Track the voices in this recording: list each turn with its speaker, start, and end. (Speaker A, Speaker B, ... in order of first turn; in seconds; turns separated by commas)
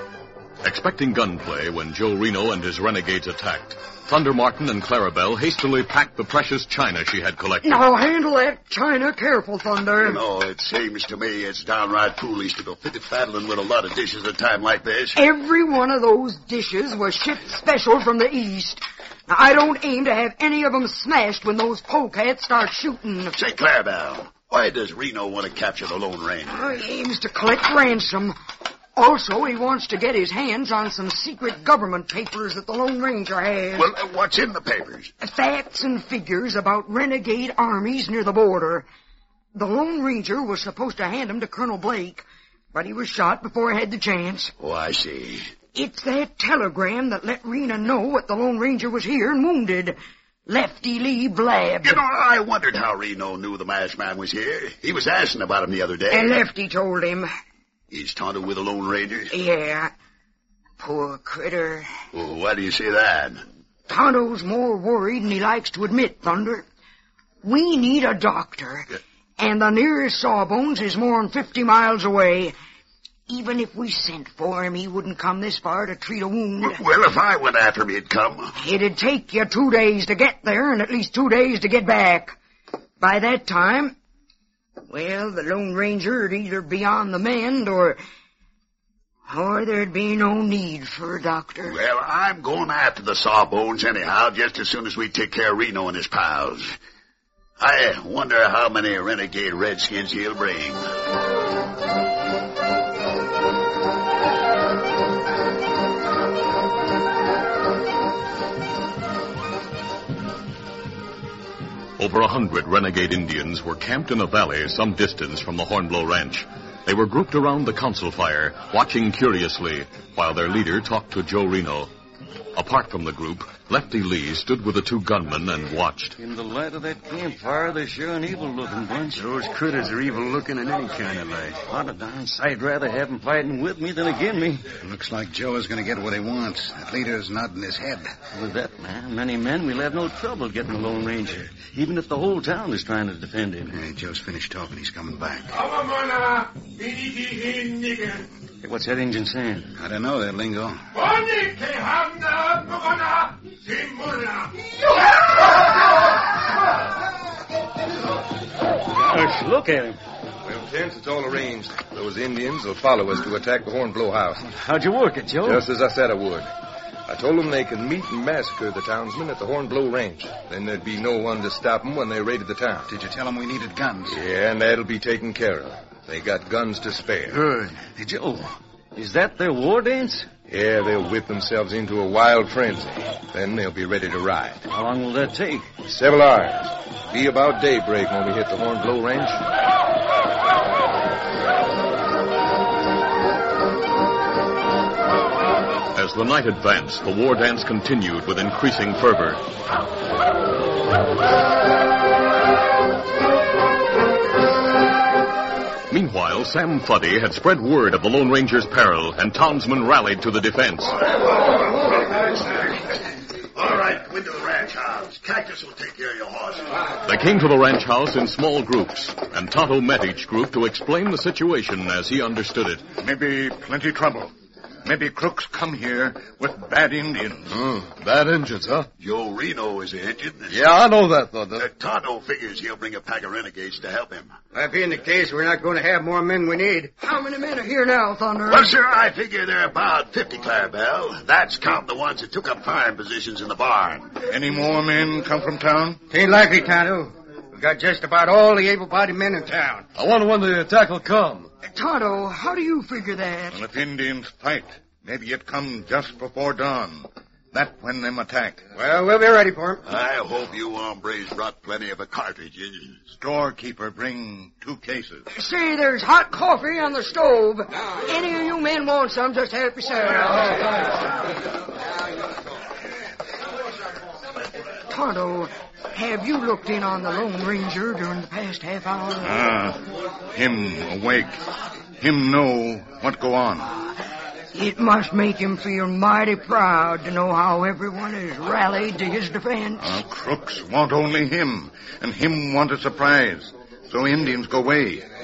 Speaker A: 0.6-7.8, Speaker B: 7.6-10.2, Speaker C: 10.0-15.2, Speaker B: 15.1-23.3, Speaker C: 23.3-26.6, Speaker B: 26.5-28.3, Speaker B: 28.9-33.9, Speaker C: 33.8-35.1, Speaker B: 35.2-38.9, Speaker B: 39.5-44.5, Speaker C: 44.6-45.5, Speaker B: 45.7-52.0, Speaker C: 51.8-56.4, Speaker B: 56.1-57.3, Speaker C: 57.9-59.3, Speaker B: 59.3-59.9, Speaker B: 60.8-61.9, Speaker C: 62.1-63.4, Speaker B: 63.9-66.6, Speaker B: 67.4-72.5, Speaker B: 73.3-76.8, Speaker C: 76.6-78.5, Speaker B: 78.5-82.4, Speaker B: 83.0-84.0, Speaker B: 84.9-88.0, Speaker B: 89.3-91.8, Speaker C: 91.6-96.7, Speaker C: 97.6-100.8, Speaker A: 112.0-121.9, Speaker A: 122.5-126.2, Speaker D: 126.2-129.3, Speaker E: 129.1-131.6, Speaker D: 131.6-134.7, Speaker F: 134.8-138.1, Speaker D: 138.3-143.7, Speaker F: 143.7-145.6, Speaker D: 148.6-149.7, Speaker F: 149.8-150.8, Speaker G: 151.1-152.7, Speaker D: 158.9-160.0, Speaker G: 160.4-164.4, Speaker D: 164.4-165.6, Speaker G: 165.4-166.5, Speaker G: 167.1-172.9, Speaker F: 172.9-174.2, Speaker G: 174.1-177.4, Speaker D: 177.3-180.3, Speaker G: 180.5-184.6, Speaker D: 184.7-185.8, Speaker G: 185.8-189.4, Speaker A: 195.9-199.4, Speaker A: 205.9-210.9, Speaker C: 212.2-212.8, Speaker C: 213.5-216.7, Speaker A: 217.1-222.8, Speaker H: 223.0-224.3, Speaker H: 224.8-227.5, Speaker G: 227.9-228.9, Speaker C: 229.0-230.6, Speaker G: 230.5-231.6, Speaker C: 231.5-234.3, Speaker I: 234.5-236.9, Speaker B: 237.0-238.7, Speaker C: 238.5-244.2, Speaker H: 244.2-246.0, Speaker I: 246.1-249.8, Speaker G: 249.9-251.5, Speaker B: 251.7-253.6, Speaker H: 253.5-258.6, Speaker I: 258.7-259.8, Speaker C: 259.8-263.0, Speaker H: 263.1-265.2, Speaker B: 265.3-270.7, Speaker B: 274.9-279.4, Speaker H: 279.2-279.8, Speaker H: 280.3-281.4, Speaker H: 282.0-283.7, Speaker B: 284.5-290.0, Speaker H: 289.8-295.1